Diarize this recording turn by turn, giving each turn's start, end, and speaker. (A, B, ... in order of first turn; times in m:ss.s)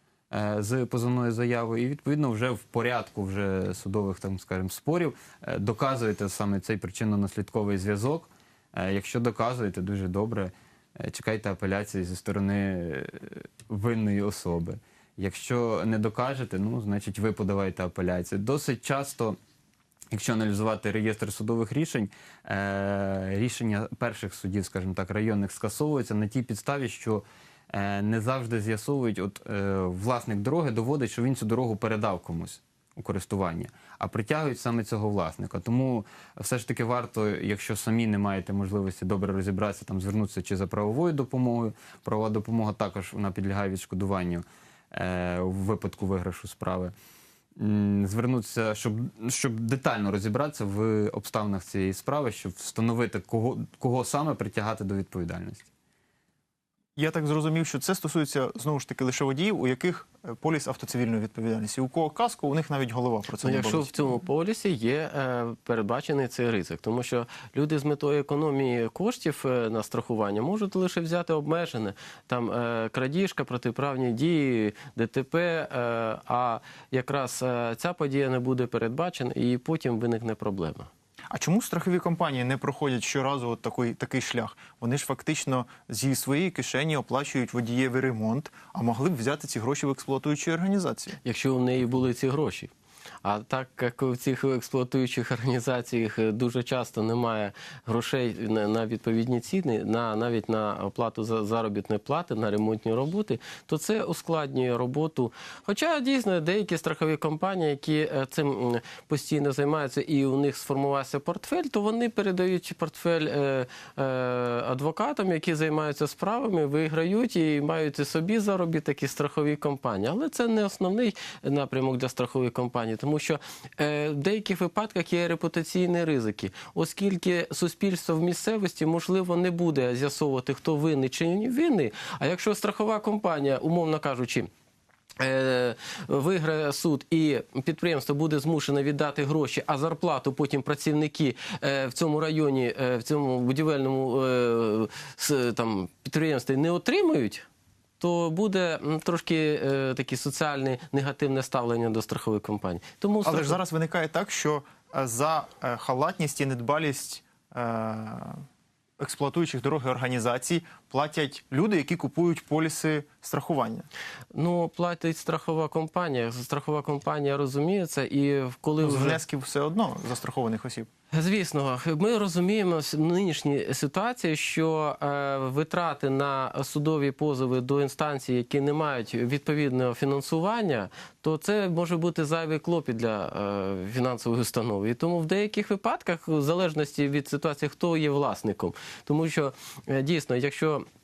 0:00.3-0:19.4 A
0:20.1-0:46.9 A
0:47.6-0:55.7 A
0:57.0-1:04.1 B
1:03.4-1:20.9 C
1:21.3-1:31.2 B
1:31.2-1:32.7 C
1:33.2-2:14.5 C
2:15.2-2:27.4 C
2:28.0-2:33.6 C
2:33.2-2:38.4 B
2:39.0-2:43.9 B
2:44.3-2:49.2 C
2:48.8-2:50.9 B
2:51.1-3:10.9 C